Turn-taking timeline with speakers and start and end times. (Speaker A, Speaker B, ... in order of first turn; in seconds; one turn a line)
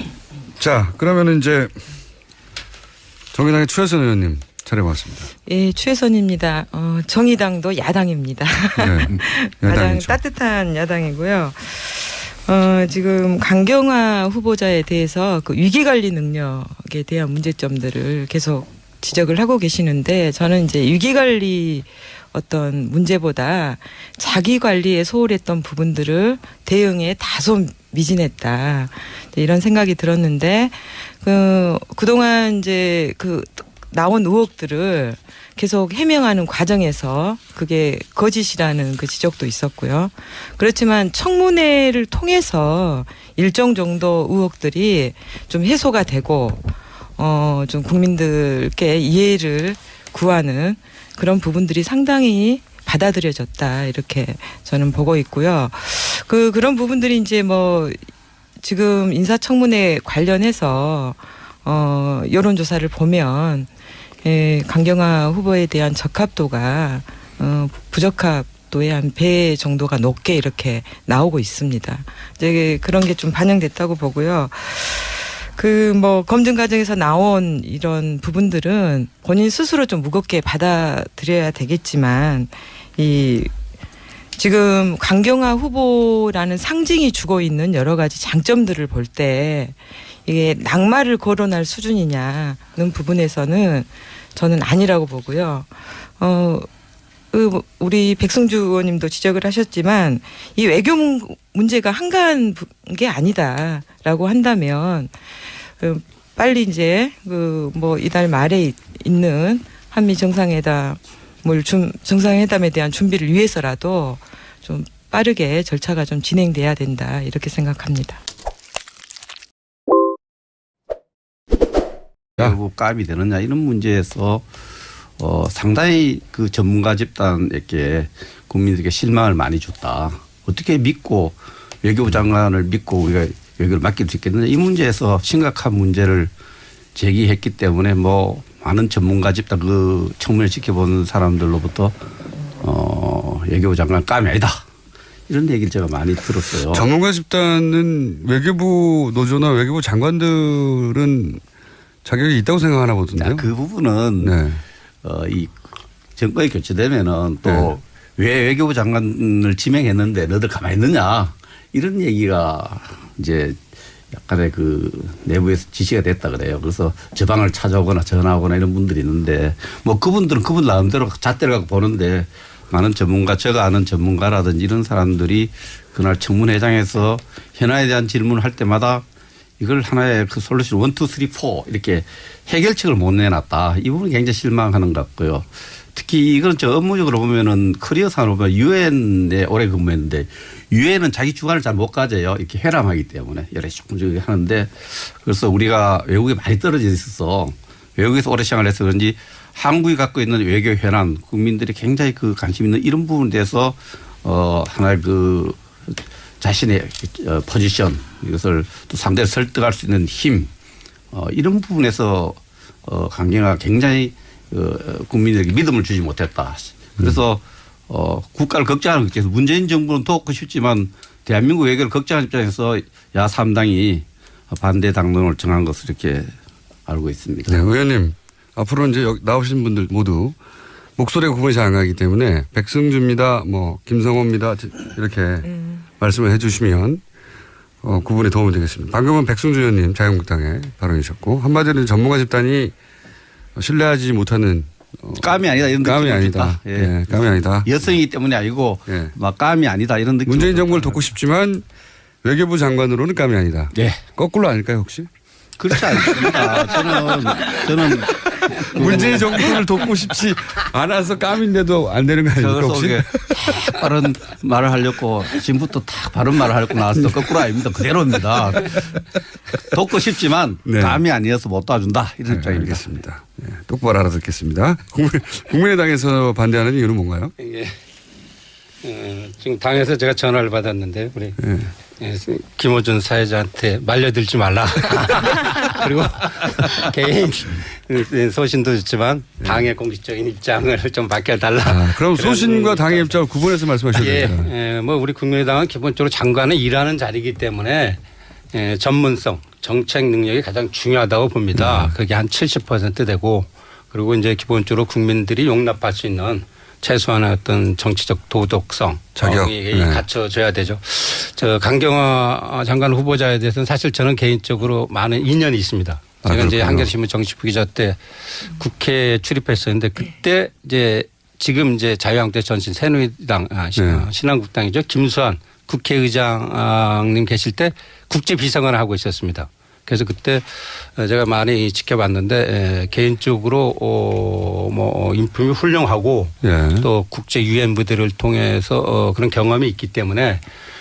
Speaker A: 0.6-1.7
Speaker A: 3.3-5.3
Speaker B: 5.5-46.6
Speaker A: 8.8-10.2
Speaker B: 47.2-58.0
Speaker B: 58.6-63.7
Speaker B: 64.2-83.5
Speaker B: 84.3-96.7
Speaker B: 97.3-105.1
Speaker B: 105.8-118.2
Speaker C: 122.4-124.4
Speaker C: 125.2-136.3
Speaker C: 136.9-141.9
Speaker C: 142.6-144.6
Speaker C: 145.3-146.9
Speaker A: 146.7-151.4
Speaker A: 152.0-153.5
Speaker C: 153.2-154.3
Speaker A: 154.2-154.6
Speaker C: 155.0-155.6
Speaker C: 156.2-163.6
Speaker A: 157.4-157.7
Speaker C: 164.1-179.0
Speaker C: 179.6-205.6
Speaker C: 206.4-210.5
Speaker C: 211.1-226.3
Speaker C: 226.9-227.6
Speaker A: 227.5-230.4
Speaker A: 231.0-237.0
Speaker A: 237.8-242.7
Speaker A: 243.6-247.7
Speaker C: 245.2-251.1
Speaker A: 248.9-249.1
Speaker A: 250.2-251.6
Speaker A: 252.2-255.1
Speaker C: 253.7-254.0
Speaker C: 255.6-259.5
Speaker A: 255.9-256.6
Speaker A: 258.8-263.5
Speaker C: 262.4-268.8
Speaker C: 269.7-272.9
Speaker A: 270.6-271.0
Speaker A: 272.3-277.3
Speaker D: 277.4-277.8
Speaker D: 278.8-281.4
Speaker A: 281.4-281.7
Speaker D: 282.0-293.2
Speaker A: 291.6-294.5
Speaker D: 293.9-298.0
Speaker D: 298.5-340.4
Speaker A: 301.5-301.9
Speaker A: 309.1-310.0
Speaker A: 316.2-316.9
Speaker A: 323.8-324.1
Speaker A: 336.4-336.9